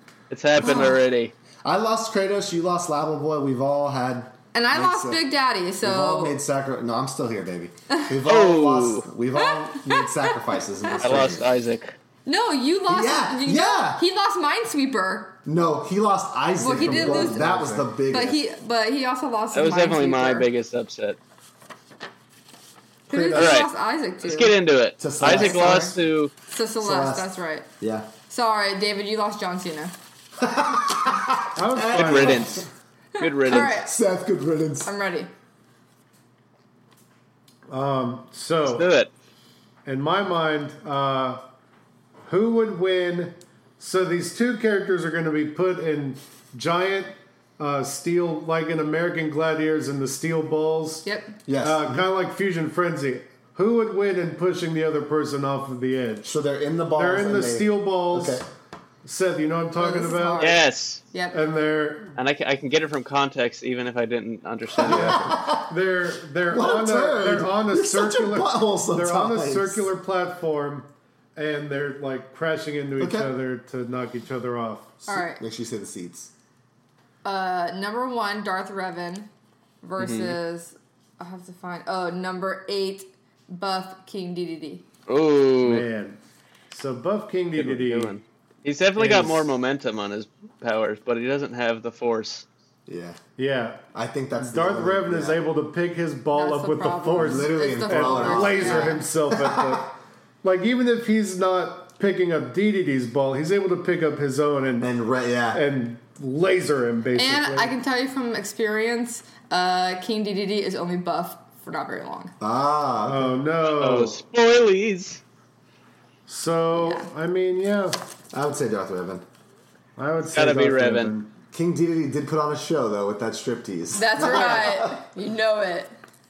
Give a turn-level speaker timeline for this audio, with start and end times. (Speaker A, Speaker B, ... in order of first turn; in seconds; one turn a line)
Speaker A: 0.3-1.3
Speaker B: 0.6-1.0
Speaker C: 1.6-5.2
Speaker B: 4.5-6.4
Speaker C: 5.8-11.5
Speaker A: 8.2-9.1
Speaker B: 9.4-10.4
Speaker A: 11.0-11.9
Speaker B: 12.2-15.4
Speaker C: 12.9-14.0
Speaker C: 15.4-18.4
Speaker B: 16.6-17.4
Speaker D: 16.7-17.9
Speaker B: 18.0-20.5
Speaker A: 19.5-21.2
Speaker C: 23.1-23.6
Speaker B: 23.1-24.6
Speaker A: 23.3-23.7
Speaker A: 24.2-26.3
Speaker C: 25.0-26.0
Speaker B: 25.2-25.9
Speaker B: 26.5-27.7
Speaker C: 26.8-28.1
Speaker B: 28.3-29.9
Speaker C: 30.4-32.6
Speaker D: 31.5-32.6
Speaker A: 31.9-32.6
Speaker B: 33.1-33.9
Speaker A: 33.2-33.8
Speaker C: 33.5-34.9
Speaker B: 34.8-35.3
Speaker D: 37.7-38.9
Speaker A: 38.6-39.1
Speaker D: 39.8-41.4
Speaker D: 42.2-51.0
Speaker B: 51.0-51.4
Speaker C: 51.5-52.0
Speaker D: 51.6-56.4
Speaker C: 56.2-58.5
Speaker D: 56.9-58.5
Speaker D: 59.0-60.5
Speaker B: 59.8-61.4
Speaker A: 60.4-61.0
Speaker D: 61.3-62.2
Speaker A: 62.2-65.4
Speaker C: 64.7-65.7
Speaker D: 64.8-74.9
Speaker C: 66.5-69.9
Speaker C: 73.0-73.3
Speaker C: 75.0-76.3
Speaker B: 75.0-75.4
Speaker B: 77.2-79.3
Speaker B: 79.8-84.8
Speaker A: 80.0-80.4
Speaker A: 85.1-85.9
Speaker D: 85.6-88.1
Speaker A: 87.5-92.5
Speaker D: 89.0-89.5
Speaker C: 92.9-93.2
Speaker D: 93.4-93.8
Speaker C: 93.9-95.4
Speaker D: 94.4-104.9
Speaker B: 96.3-99.0
Speaker C: 97.1-99.8
Speaker C: 104.8-105.6
Speaker D: 105.5-107.7
Speaker B: 107.2-112.3
Speaker C: 112.4-113.3
Speaker D: 113.0-114.2
Speaker A: 113.6-115.2
Speaker D: 116.3-118.0
Speaker B: 116.7-117.1
Speaker C: 118.3-119.2
Speaker D: 120.0-121.3
Speaker A: 120.3-121.1
Speaker C: 121.5-125.0
Speaker B: 123.9-126.0